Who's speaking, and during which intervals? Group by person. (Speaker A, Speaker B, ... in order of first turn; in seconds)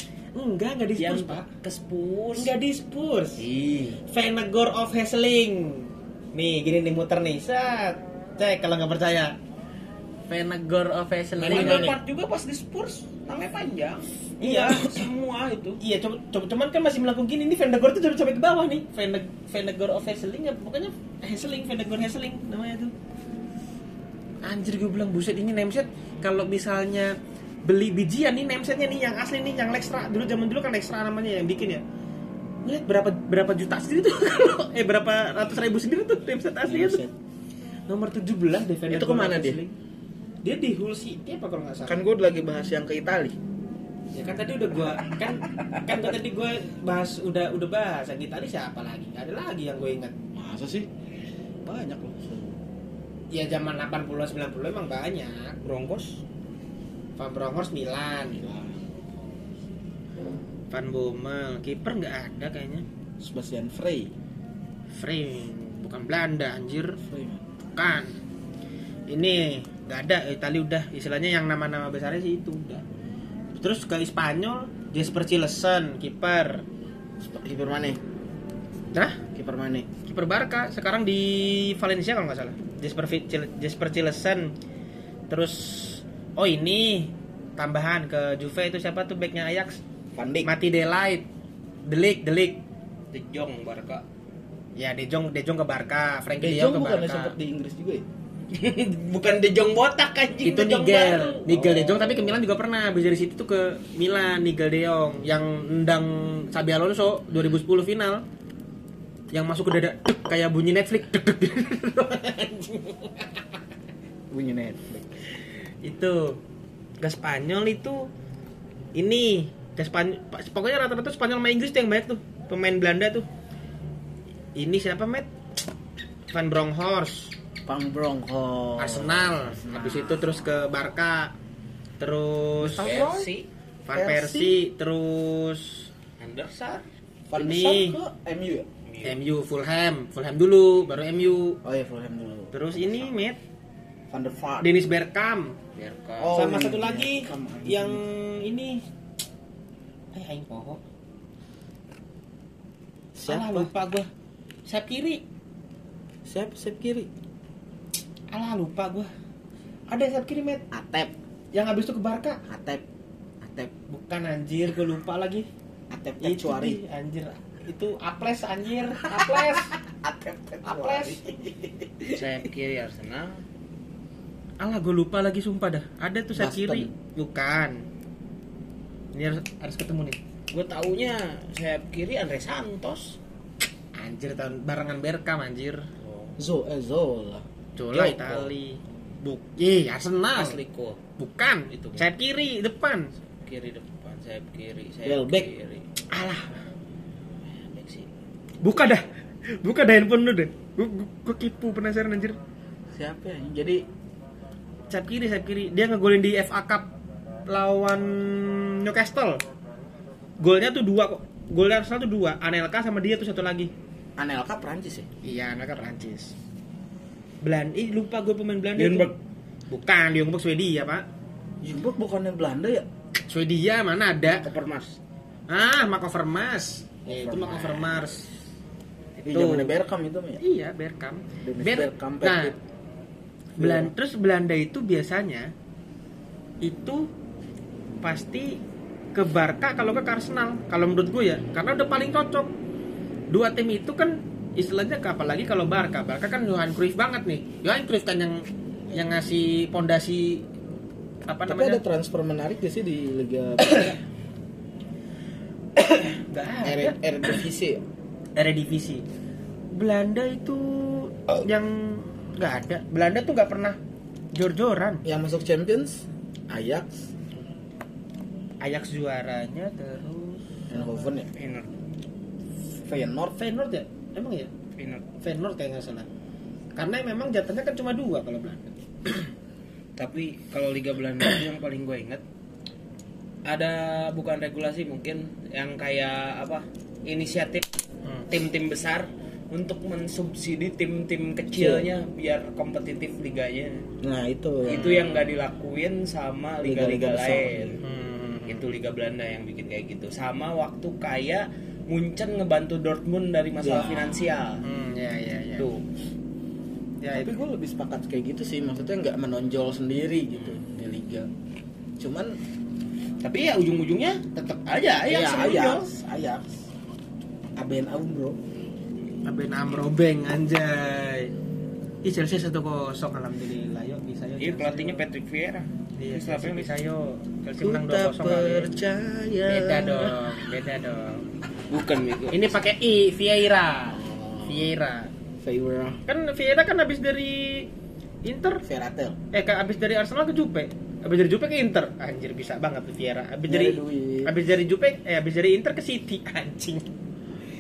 Speaker A: 0.3-1.5, 2.4-3.5, 4.0-9.3, 10.3-11.9, 14.4-15.0, 15.8-22.9, 24.4-31.8, 32.6-37.0, 37.9-39.7, 40.4-42.0, 44.1-50.1, 53.3-55.6, 57.2-58.5, 60.7-62.9, 64.9-67.0, 67.8-68.1, 69.1-72.8, 73.5-76.7, 78.9-79.2, 80.1-84.5, 85.3-89.8, 90.4-91.3, 91.8-92.6, 94.8-97.3, 100.4-108.2, 109.3-113.3, 115.8-116.4, 117.0-118.1, 119.0-123.3, 124.6-125.3, 126.3-127.3, 128.8-131.3, 132.0-132.9, 133.8-135.9, 137.4-138.0, 139.0-141.6, 142.5-143.4, 144.6-145.6, 146.3-148.8, 150.1-150.8, 153.3-154.1, 154.7-155.2, 158.3-159.1, 159.9-160.6, 161.5-162.4, 163.9-165.5, 166.2-169.8, 170.6-171.4, 174.6-177.8, 179.1-180.2, 184.0-185.9, 187.8-190.6, 191.2-193.1, 196.1-196.6, 198.6-199.1, 199.6-202.4, 204.9-206.9, 207.5-209.4, 210.4-213.7, 215.2-216.3, 217.4-219.1, 219.7-221.1, 223.3-224.4, 225.5-228.3, 229.2-229.7, 230.4-232.5, 233.6-235.5, 236.6-237.1, 238.0-238.6, 239.1-242.5, 243.3-250.5, 251.3-251.8, 256.0-257.0, 258.4-259.0, 259.7-263.8, 264.3-265.0, 268.6-270.5, 273.4-274.5, 275.2-276.1, 276.8-279.2, 294.7-295.1, 297.8-298.6, 304.6-305.7, 307.0-307.4, 319.2-321.3, 322.0-325.0, 326.0-328.7, 329.5-331.2, 332.3-335.1, 336.1-337.7, 338.2-338.6, 339.3-346.9
Speaker B: 1.0-2.5, 3.4-4.0, 11.4-15.8, 55.6-56.2, 93.1-94.0, 98.5-102.4, 132.7-133.5, 136.2-136.9, 138.9-139.2, 145.8-146.4, 172.1-173.4, 180.5-183.2, 186.0-186.4, 190.3-191.0, 191.7-192.1, 193.4-195.8, 197.5-198.1, 218.8-219.1, 224.4-225.0, 271.4-271.7, 274.8-275.1, 280.0-282.2, 283.4-287.6, 288.3-293.9, 294.7-297.8, 298.5-304.6, 305.6-305.8, 313.2-315.9, 324.4-326.8, 331.7-332.6
Speaker C: 11.4-12.0, 36.6-37.1, 38.9-39.6, 41.9-43.4, 50.4-50.9, 51.6-52.6, 58.3-59.5, 63.2-64.1, 67.0-67.5, 77.2-78.0, 79.3-79.9, 90.2-90.5, 96.4-98.1, 114.3-115.2, 127.7-130.4, 132.7-133.3, 133.9-134.6, 137.3-138.7, 141.6-143.2, 144.1-144.9, 146.2-148.0, 153.2-153.7, 156.2-157.1, 160.7-161.1, 162.5-162.8, 163.4-163.7, 165.9-166.8, 169.0-172.2, 176.3-176.9, 186.4-188.5, 195.1-195.5, 202.9-203.8, 214.2-215.1, 221.6-222.9, 227.1-228.2, 229.3-230.4, 231.4-232.6, 233.6-233.9, 251.5-254.0, 256.6-257.8, 265.1-267.1, 270.7-271.3, 272.8-273.4, 291.5-291.9, 294.0-294.9, 296.6-297.8, 303.6-304.3, 307.1-311.3, 312.0-312.4, 315.1-316.5, 317.6-318.4, 327.6-330.4, 333.9-334.7, 335.4-336.0, 338.6-339.2, 343.5-344.3